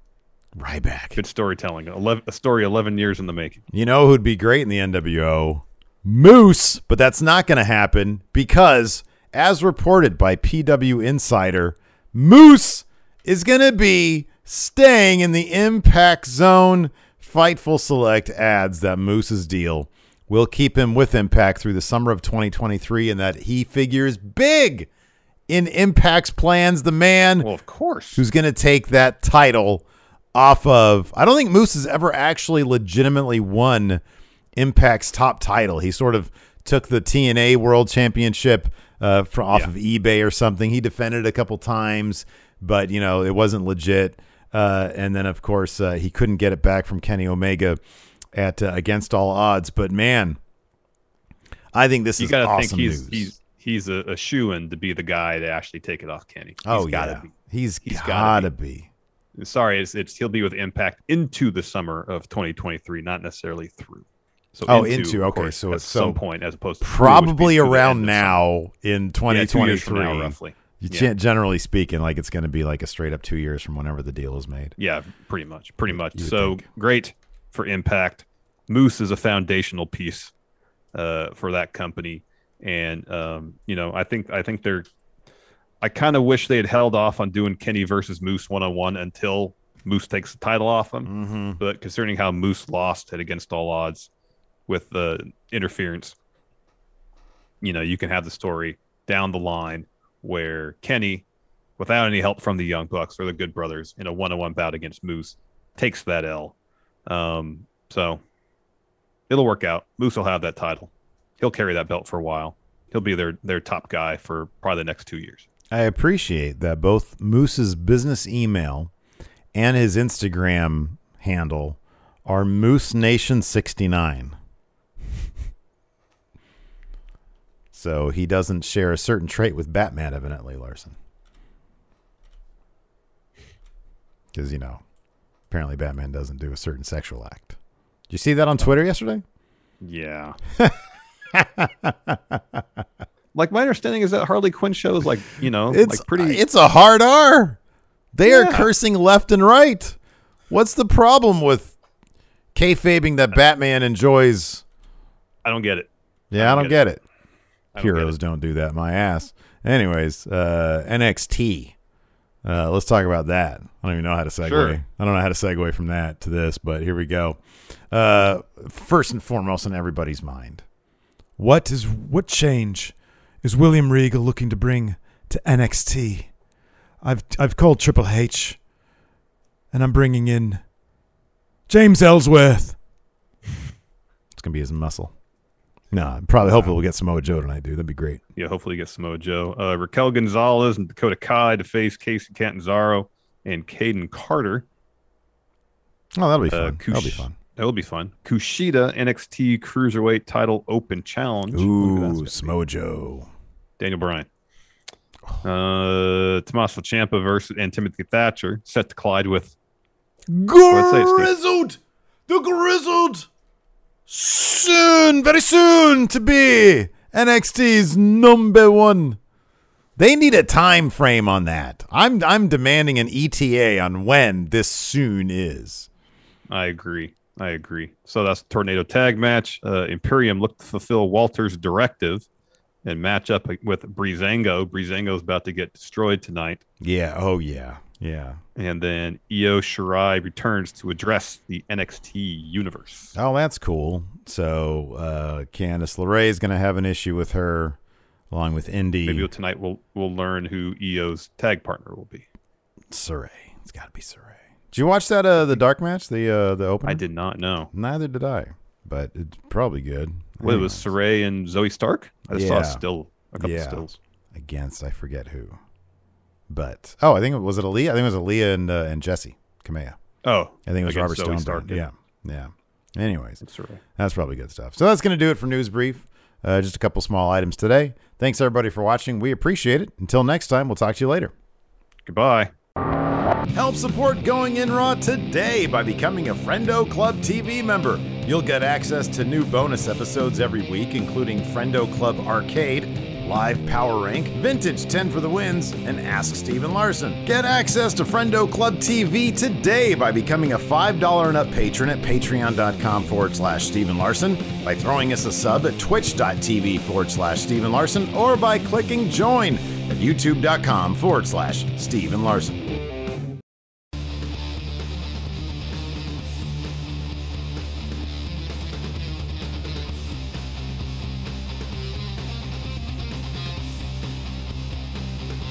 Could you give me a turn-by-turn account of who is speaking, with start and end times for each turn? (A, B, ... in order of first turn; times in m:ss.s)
0:00.6-0:01.2 A
0:01.2-0:03.6 B
0:03.7-0:24.9 A
0:25.5-0:27.5 A
0:27.4-0:28.2 B
0:28.2-0:34.0 A
0:34.6-0:47.8 A
0:48.3-0:50.4 A
0:51.7-0:53.3 A
0:52.2-0:57.3 B
0:56.6-0:58.9 A
0:57.8-0:58.5 B
0:59.4-1:08.4 B
1:04.7-1:06.2 A
1:06.8-1:14.8 A
1:09.3-1:11.1 B
1:14.8-1:20.3 B
1:15.9-1:16.6 A
1:20.9-1:24.9 B
1:25.8-1:34.1 B
1:31.1-1:31.6 A
1:34.7-1:36.2 B
1:37.6-1:41.2 B
1:41.8-1:46.6 B
1:47.1-1:48.2 B
1:49.3-1:55.5 B
1:55.7-1:58.9 A
1:59.5-2:04.4 A
2:07.7-2:11.0 A
2:14.3-2:14.8 A
2:15.5-2:17.6 A
2:18.1-2:19.2 A
2:19.8-2:20.4 B
2:21.3-2:22.6 A
2:23.3-2:26.4 B
2:25.7-2:27.6 A
2:28.1-2:30.0 A
2:28.3-2:28.7 B
2:30.5-2:31.8 A
2:32.6-2:34.6 A
2:35.4-2:36.8 B
2:36.3-2:37.0 A
2:37.8-2:38.2 B
2:37.8-2:41.8 A
2:42.4-2:47.4 A
2:44.4-2:44.8 B
2:47.9-2:50.6 A
2:51.4-2:56.3 A
2:57.0-2:58.6 A
2:59.7-3:00.6 A
3:01.7-3:02.8 A
3:04.3-3:05.1 A
3:05.9-3:08.2 A
3:06.4-3:06.8 B
3:08.4-3:14.6 B
3:16.2-3:17.4 A
3:16.5-3:22.5 B
3:21.5-3:23.3 A
3:23.8-3:24.3 B
3:25.4-3:29.6 B
3:30.3-3:33.3 A
3:30.7-3:31.3 B
3:34.1-3:39.2 A
3:40.0-3:45.9 A
3:46.5-3:52.3 B
3:52.8-3:56.6 B
3:56.8-3:58.4 A
3:58.6-4:03.1 B
4:03.2-4:07.8 A
4:08.3-4:09.3 A
4:09.0-4:12.3 B
4:12.9-4:17.0 A
4:16.9-4:17.7 B
4:17.7-4:20.8 A
4:20.4-4:24.0 B
4:22.3-4:22.8 A
4:23.4-4:25.6 A
4:26.5-4:30.0 A
4:30.2-4:31.8 B
4:30.7-4:33.4 A
4:33.4-4:33.8 B
4:34.0-4:41.3 A
4:42.1-4:42.5 B
4:43.5-5:12.6 A